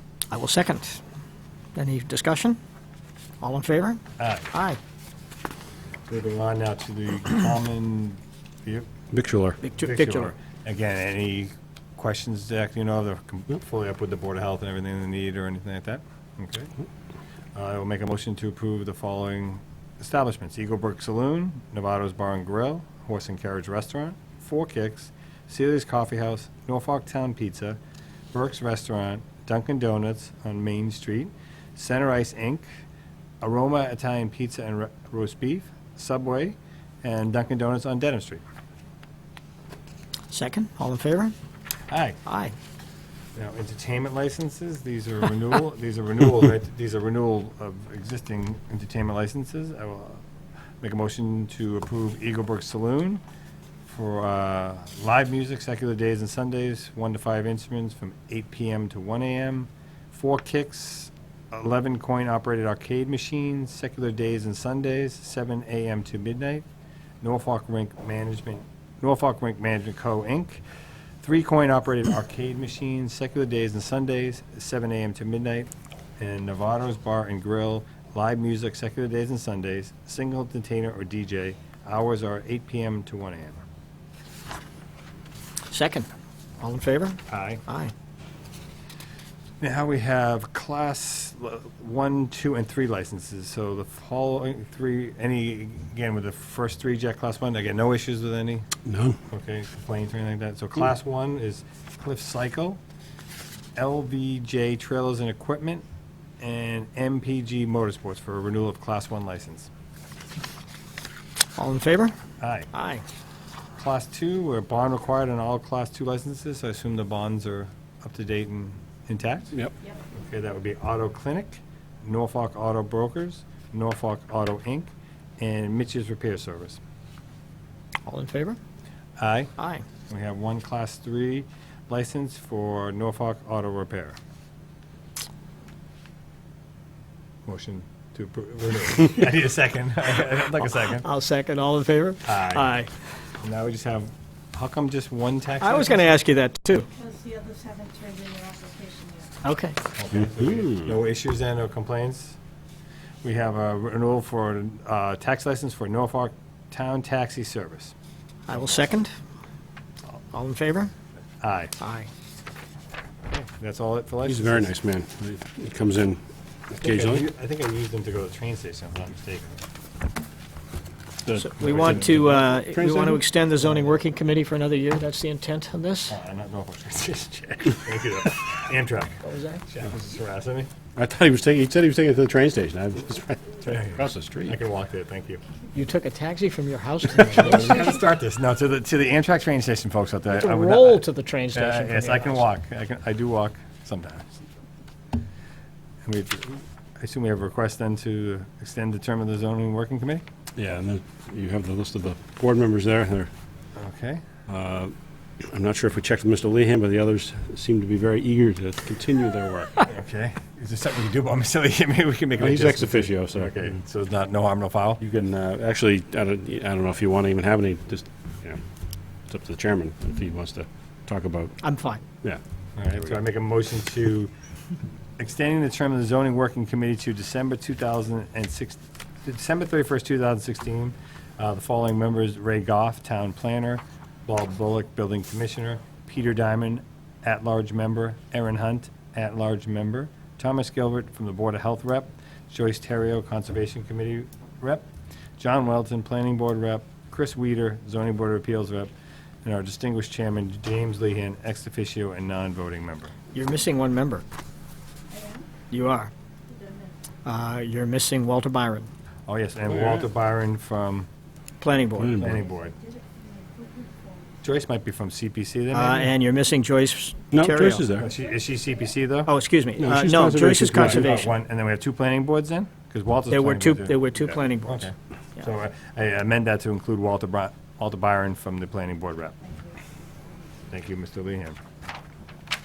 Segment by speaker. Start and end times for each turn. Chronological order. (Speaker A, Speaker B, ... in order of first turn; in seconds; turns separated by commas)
Speaker A: 0.3-1.0, Speaker A: 1.8-2.6, Speaker A: 3.4-4.8, Speaker B: 4.2-4.5, Speaker B: 6.1-8.9, Speaker C: 9.1-9.6, Speaker A: 9.6-10.3, Speaker B: 9.8-16.7, Speaker B: 17.6-27.8, Speaker B: 28.3-32.7, Speaker B: 33.4-38.4, Speaker A: 40.3-41.3, Speaker B: 41.9-42.2, Speaker A: 42.3-42.5, Speaker B: 43.4-50.2, Speaker B: 50.8-53.2, Speaker B: 53.9-66.6, Speaker B: 67.2-70.6, Speaker B: 71.2-83.6, Speaker A: 85.7-86.1, Speaker A: 86.6-87.9, Speaker B: 87.3-87.6, Speaker B: 89.6-98.7, Speaker C: 98.9-99.2, Speaker B: 99.2-102.8, Speaker B: 103.8-105.8, Speaker B: 106.4-109.7, Speaker A: 111.6-112.1, Speaker B: 112.4-112.7, Speaker A: 112.7-113.0, Speaker B: 113.8-119.6, Speaker B: 120.1-126.8, Speaker A: 128.1-128.6, Speaker B: 129.2-129.5, Speaker A: 129.6-129.8, Speaker B: 130.1-134.2, Speaker B: 137.4-141.1, Speaker A: 140.9-142.9, Speaker B: 142.2-142.7, Speaker B: 143.4-146.2, Speaker A: 145.6-146.9, Speaker D: 147.0-149.3, Speaker A: 149.4-149.8, Speaker B: 149.9-152.4, Speaker C: 150.3-150.9, Speaker B: 153.2-157.9, Speaker A: 158.5-159.1, Speaker A: 160.3-160.9, Speaker B: 161.4-161.8, Speaker A: 161.8-162.1, Speaker B: 163.3-164.7, Speaker C: 164.2-167.2, Speaker B: 166.8-169.6, Speaker C: 171.2-173.2, Speaker A: 171.4-176.1, Speaker B: 176.1-180.7, Speaker A: 179.2-179.6, Speaker C: 180.9-184.6, Speaker B: 183.7-185.4, Speaker A: 185.7-187.9, Speaker B: 187.2-194.4, Speaker A: 190.3-192.4, Speaker B: 196.0-200.2, Speaker C: 200.6-203.3, Speaker B: 203.8-204.2, Speaker C: 204.5-204.9, Speaker C: 205.4-209.8, Speaker B: 209.8-215.0, Speaker C: 212.4-213.7, Speaker C: 215.0-218.6, Speaker C: 219.2-221.6, Speaker A: 221.6-222.0, Speaker B: 222.8-224.3, Speaker B: 225.2-244.9, Speaker B: 245.4-248.9, Speaker B: 249.4-253.1, Speaker A: 253.3-254.2, Speaker D: 255.1-255.5, Speaker A: 255.7-256.1, Speaker D: 256.5-256.9, Speaker A: 257.2-258.9, Speaker B: 259.3-261.1, Speaker C: 259.7-260.1, Speaker A: 261.6-262.2, Speaker C: 262.0-262.4, Speaker B: 262.1-262.7, Speaker D: 262.2-264.2, Speaker B: 264.4-266.1, Speaker A: 265.7-267.9, Speaker C: 267.3-268.1, Speaker B: 268.0-269.3, Speaker D: 268.0-268.8, Speaker A: 269.2-271.3, Speaker C: 269.8-271.1, Speaker B: 270.7-279.4, Speaker A: 273.3-274.9, Speaker B: 280.7-281.6